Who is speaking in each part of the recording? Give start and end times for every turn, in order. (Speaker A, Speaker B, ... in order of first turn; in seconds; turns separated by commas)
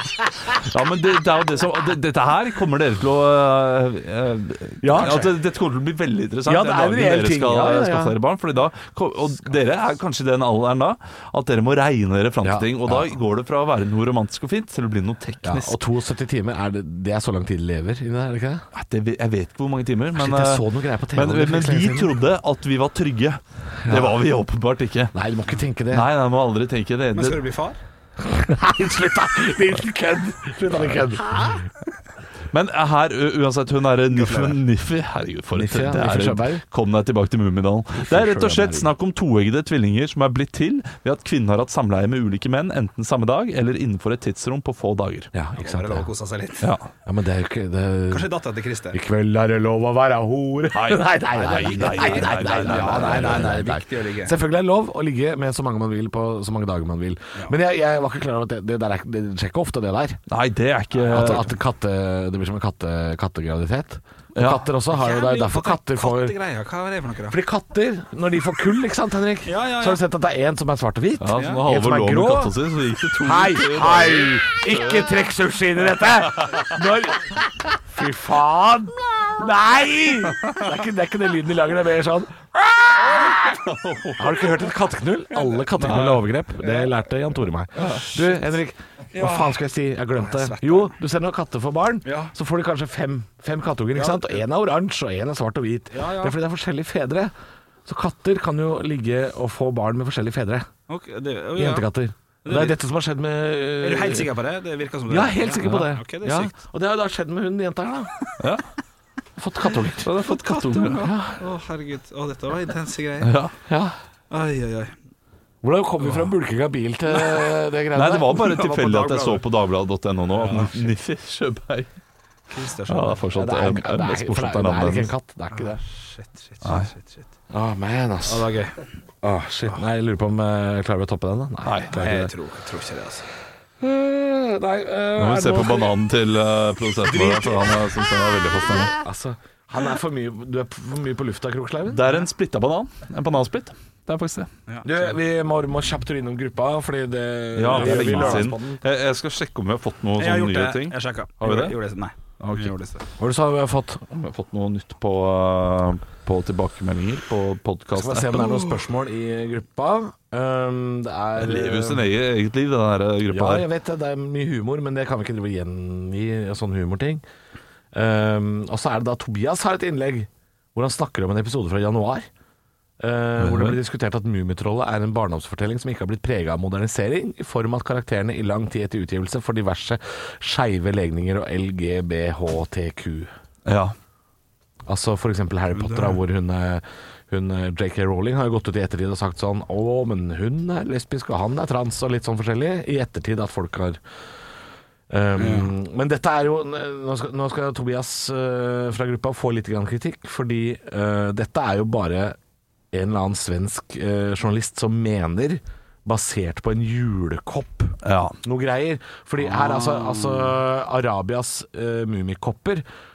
Speaker A: 0.5-15.8, Speaker B: 4.8-5.3, Speaker B: 6.5-8.2, Speaker B: 12.4-13.2, Speaker B: 15.4-18.7, Speaker A: 18.7-25.1, Speaker B: 20.2-22.2, Speaker B: 23.8-24.2, Speaker B: 25.1-26.1, Speaker A: 25.9-27.4, Speaker C: 27.1-27.8, Speaker B: 28.2-31.7, Speaker A: 32.5-45.3, Speaker B: 35.5-36.6, Speaker B: 38.0-38.9, Speaker B: 45.3-46.1, Speaker C: 45.6-46.7, Speaker A: 46.6-46.9, Speaker B: 47.1-48.3, Speaker C: 48.1-49.0, Speaker B: 48.9-60.2, Speaker A: 50.7-53.7, Speaker C: 51.4-54.3, Speaker A: 60.3-61.5, Speaker B: 61.0-66.4, Speaker A: 64.3-64.7, Speaker C: 64.9-67.4, Speaker B: 67.3-72.6, Speaker C: 69.5-70.0, Speaker A: 71.2-75.2, Speaker C: 71.4-71.6, Speaker B: 73.2-83.6, Speaker A: 76.3-76.8, Speaker A: 83.0-84.7, Speaker B: 84.2-97.3, Speaker A: 85.8-86.2, Speaker C: 85.8-86.9, Speaker A: 87.8-88.3, Speaker C: 89.1-89.6, Speaker C: 90.2-90.9, Speaker C: 92.0-92.3, Speaker C: 94.0-94.4, Speaker C: 95.9-96.4, Speaker B: 97.9-100.7, Speaker C: 100.9-101.9, Speaker B: 101.6-104.3, Speaker C: 102.5-102.8, Speaker C: 103.8-106.5, Speaker B: 105.1-108.2, Speaker A: 105.6-105.9, Speaker A: 108.4-108.7, Speaker B: 109.4-110.2, Speaker A: 110.0-111.1, Speaker C: 110.2-113.3, Speaker B: 110.8-111.4, Speaker A: 113.2-113.6, Speaker B: 113.7-114.0, Speaker C: 114.3-114.9, Speaker B: 115.6-118.5, Speaker A: 117.9-121.9, Speaker C: 118.4-119.4, Speaker C: 120.3-120.8, Speaker C: 122.5-123.3, Speaker A: 122.9-125.1, Speaker B: 123.3-125.8, Speaker C: 125.5-127.3, Speaker A: 126.6-126.9, Speaker B: 127.5-128.5, Speaker C: 128.2-128.8, Speaker B: 129.2-132.3, Speaker A: 131.6-132.0, Speaker C: 131.9-133.3, Speaker B: 133.8-136.0, Speaker A: 135.2-138.9, Speaker B: 137.0-138.0, Speaker B: 138.8-142.1, Speaker A: 141.9-144.5, Speaker C: 144.7-145.1, Speaker B: 144.8-148.8, Speaker A: 147.6-151.8, Speaker C: 147.7-148.5, Speaker C: 150.2-153.0, Speaker A: 152.4-152.8, Speaker B: 153.2-154.1, Speaker A: 154.1-158.8, Speaker B: 157.9-162.1, Speaker A: 161.4-163.7, Speaker B: 163.3-167.2, Speaker B: 167.9-172.3, Speaker B: 173.0-183.3, Speaker A: 173.4-173.8, Speaker A: 183.7-183.9, Speaker B: 184.9-194.0, Speaker C: 185.7-186.2, Speaker B: 195.1-202.4, Speaker C: 195.4-195.7, Speaker B: 202.9-212.8, Speaker A: 208.0-208.4, Speaker C: 209.4-210.6